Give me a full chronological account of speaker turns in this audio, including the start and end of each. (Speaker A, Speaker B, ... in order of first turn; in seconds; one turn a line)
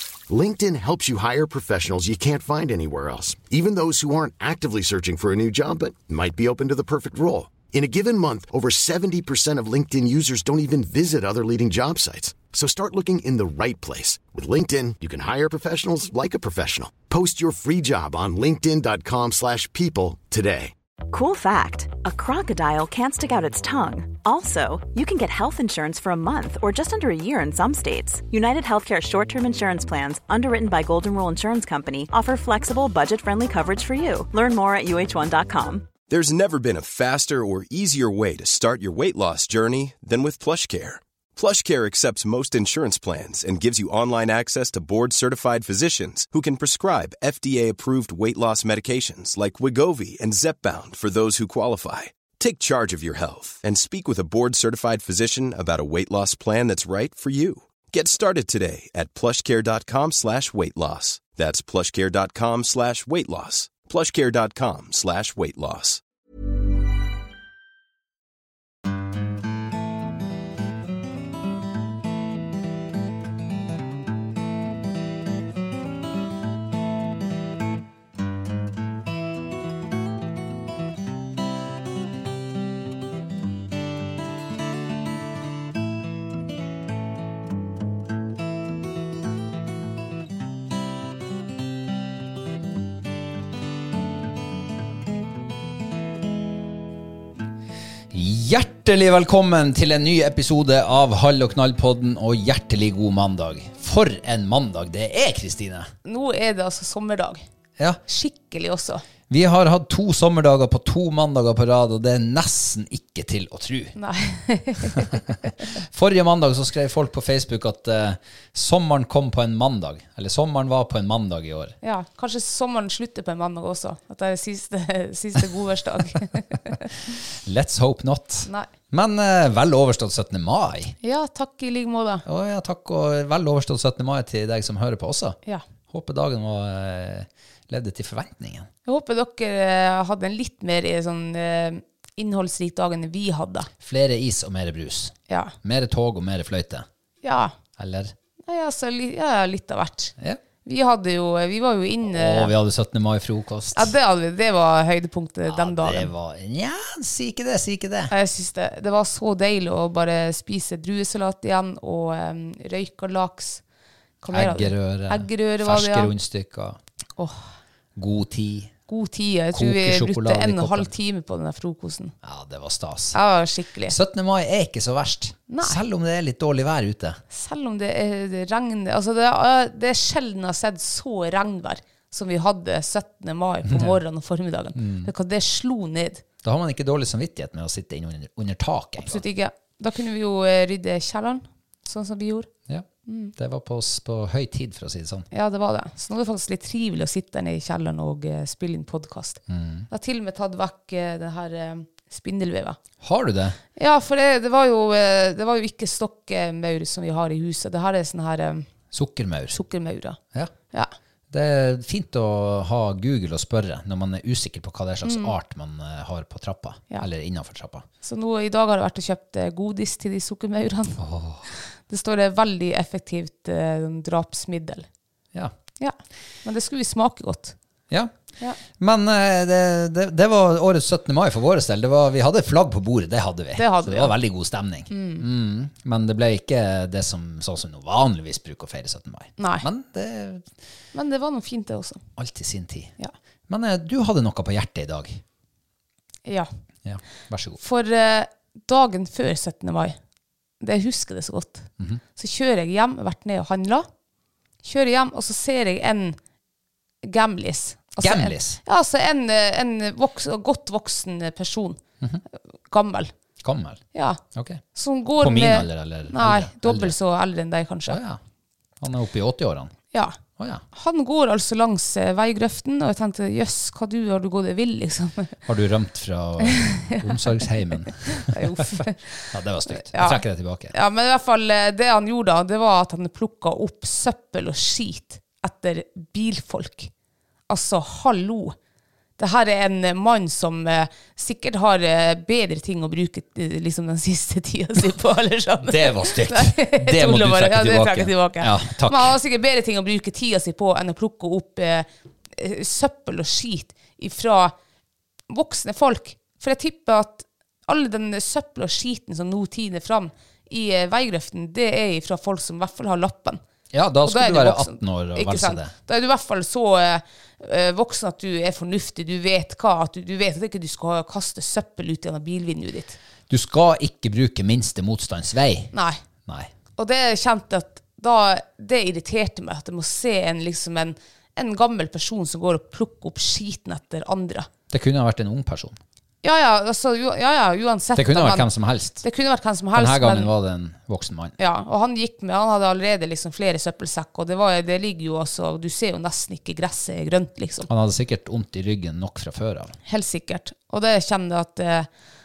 Speaker A: 0.3-20.7
Speaker B: 21.1-35.9
Speaker C: 36.1-66.0
Speaker D: 98.1-105.9
Speaker E: 106.0-107.4
Speaker E: 108.1-109.0
Speaker D: 109.3-113.9
Speaker E: 114.0-115.2
Speaker D: 115.8-121.7
Speaker E: 121.8-126.8
Speaker D: 127.4-130.9
Speaker E: 131.0-132.2
Speaker D: 132.2-135.4
Speaker D: 135.9-138.7
Speaker E: 138.8-143.7
Speaker D: 143.8-146.8
Speaker E: 145.3-145.5
Speaker E: 147.2-147.5
Speaker D: 147.8-148.1
Speaker E: 148.5-150.1
Speaker E: 150.6-152.5
Speaker D: 152.0-153.9
Speaker E: 153.7-156.1
Speaker D: 155.5-158.1
Speaker E: 158.1-163.6
Speaker E: 164.2-166.1
Speaker D: 164.3-166.8
Speaker E: 167.2-167.5
Speaker D: 167.9-168.7
Speaker E: 168.9-172.1
Speaker D: 169.5-170.9
Speaker D: 172.2-173.2
Speaker E: 173.1-173.9
Speaker D: 173.9-177.2
Speaker E: 175.5-175.8
Speaker E: 177.3-186.2
Speaker D: 183.7-184.0
Speaker D: 184.7-185.1
Speaker D: 186.4-189.2
Speaker E: 189.0-192.5
Speaker D: 192.7-195.3
Speaker E: 193.1-193.3
Speaker E: 195.3-202.8
Speaker D: 199.5-199.8
Speaker D: 203.0-203.6
Speaker E: 203.8-208.7
Speaker D: 208.9-209.6
Speaker E: 209.5-210.2
Speaker D: 211.3-217.8
Speaker E: 215.0-215.3
Speaker E: 218.0-221.0
Speaker D: 221.0-221.4
Speaker E: 221.5-224.8
Speaker E: 225.8-227.5
Speaker D: 228.8-240.5
Speaker E: 233.6-234.2
Speaker E: 234.9-235.2
Speaker E: 239.4-239.7
Speaker E: 240.9-242.0
Speaker D: 242.2-242.9
Speaker D: 243.5-245.2
Speaker D: 246.8-247.6
Speaker E: 247.6-250.0
Speaker E: 250.6-253.9
Speaker E: 254.6-256.2
Speaker E: 257.0-261.8
Speaker D: 258.0-258.6
Speaker E: 262.7-263.1
Speaker D: 263.4-263.8
Speaker E: 263.9-264.2
Speaker D: 264.3-264.6
Speaker E: 264.7-268.0
Speaker D: 265.2-266.9
Speaker D: 267.9-268.2
Speaker D: 268.8-269.7
Speaker D: 270.4-270.6
Speaker E: 270.7-275.3
Speaker D: 275.4-280.7
Speaker E: 276.4-277.4
Speaker E: 278.1-286.9
Speaker E: 287.5-288.6
Speaker E: 289.2-304.5
Speaker D: 295.6-299.2
Speaker E: 305.3-313.4
Speaker D: 313.7-315.7
Speaker E: 314.1-323.0
Speaker D: 323.3-325.7
Speaker E: 325.7-326.0
Speaker D: 326.2-326.5
Speaker E: 326.8-334.5
Speaker D: 334.7-335.8
Speaker E: 336.2-338.5
Speaker D: 337.9-339.0
Speaker E: 339.0-340.3
Speaker D: 339.7-341.4
Speaker E: 341.4-347.7
Speaker D: 347.7-349.7
Speaker E: 349.9-351.9